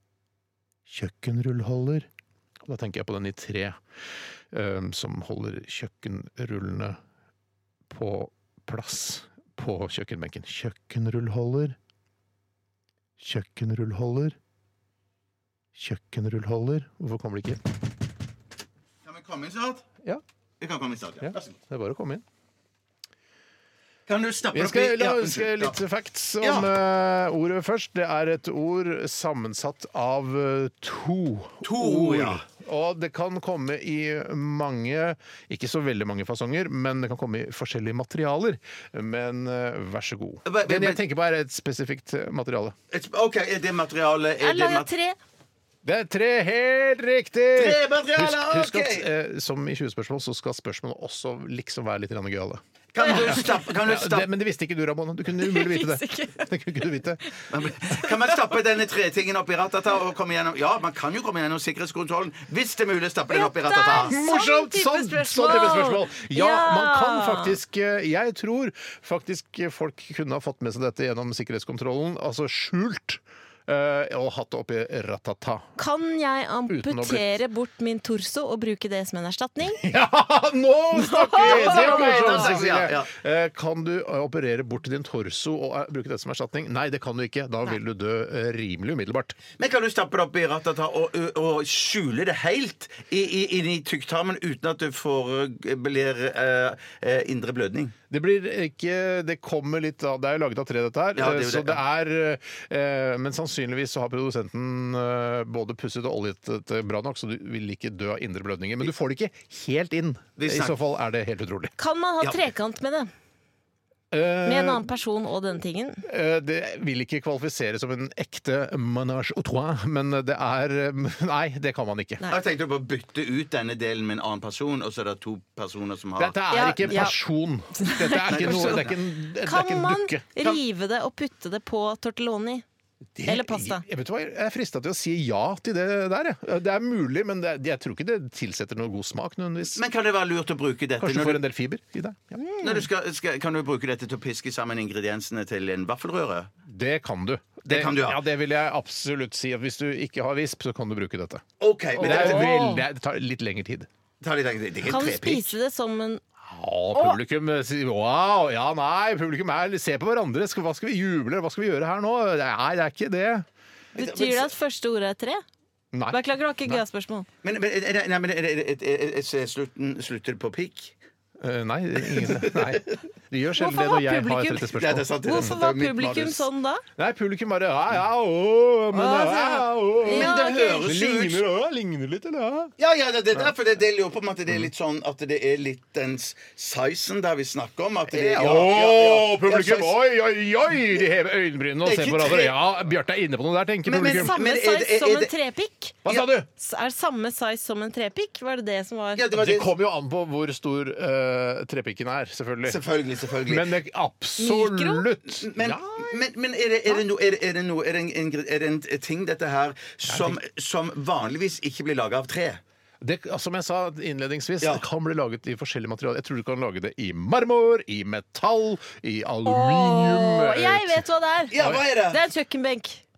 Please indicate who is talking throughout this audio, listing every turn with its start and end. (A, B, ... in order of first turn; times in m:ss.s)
0:00.9-0:02.1 A
0:02.6-0:03.8 A
0:04.5-0:07.0 A
0:07.9-0:11.8 A
0:13.2-0:14.4 A
0:15.8-0:17.6 A
0:19.0-0:19.9 B
0:20.6-0:21.6 B
0:21.2-0:22.2 A
0:24.1-0:25.8 B
0:24.5-0:42.8 A
0:26.4-0:26.7 B
0:31.6-0:32.4 B
0:40.5-0:41.0 B
0:42.9-0:44.9 B
0:44.4-0:45.2 C
0:45.8-0:57.2 A
0:47.5-0:49.1 B
0:52.9-0:54.3 B
0:53.0-0:53.4 C
0:55.4-0:56.5 C
0:57.5-1:04.1 B
1:03.3-1:07.5 C
1:03.9-1:15.7 A
1:15.8-1:19.8 C
1:16.7-1:17.4 A
1:19.8-1:29.4 A
1:21.0-1:21.8 C
1:21.4-1:23.1 B
1:29.6-1:38.0 B
1:38.1-1:51.7 A
1:41.2-1:41.8 B
1:50.4-1:50.8 B
1:51.8-1:53.1 C
1:54.1-1:54.8 A
1:54.4-1:56.0 C
1:56.1-2:02.2 A
2:02.3-2:07.1 B
2:06.2-2:10.3 A
2:06.5-2:07.2 C
2:07.8-2:12.6 C
2:08.3-2:09.0 B
2:13.2-2:19.8 A
2:13.3-2:13.8 C
2:19.7-2:21.4 B
2:21.0-2:22.4 A
2:22.4-2:22.8 C
2:22.6-2:26.5 B
2:26.7-2:31.4 A
2:27.7-2:28.2 B
2:31.6-2:32.6 B
2:32.0-2:32.8 C
2:32.0-2:33.9 A
2:34.2-2:35.6 B
2:34.9-2:36.2 C
2:36.5-2:43.5 A
2:44.0-2:44.5 B
2:44.0-2:45.4 C
2:45.9-2:46.8 A
2:46.1-2:47.3 C
2:47.4-2:51.0 B
2:51.4-2:56.5 A
2:52.0-2:53.0 B
2:53.6-2:56.8 C
2:54.7-2:56.3 B
2:57.0-3:02.7 A
2:58.9-3:00.9 C
3:00.1-3:01.4 B
3:02.8-3:10.0 B
3:08.1-3:14.4 A
3:11.8-3:12.6 B
3:13.9-3:15.3 B
3:14.0-3:16.0 C
3:16.0-3:16.5 A
3:16.1-3:16.4 B
3:16.6-3:19.2 C
3:19.2-3:19.7 B
3:19.3-3:22.8 A
3:22.6-3:23.7 B
3:23.4-3:25.8 A
3:24.4-3:25.1 C
3:25.4-3:32.6 B
3:30.1-3:30.4 A
3:33.0-3:41.0 A
3:39.4-3:43.0 C
3:41.5-3:42.2 B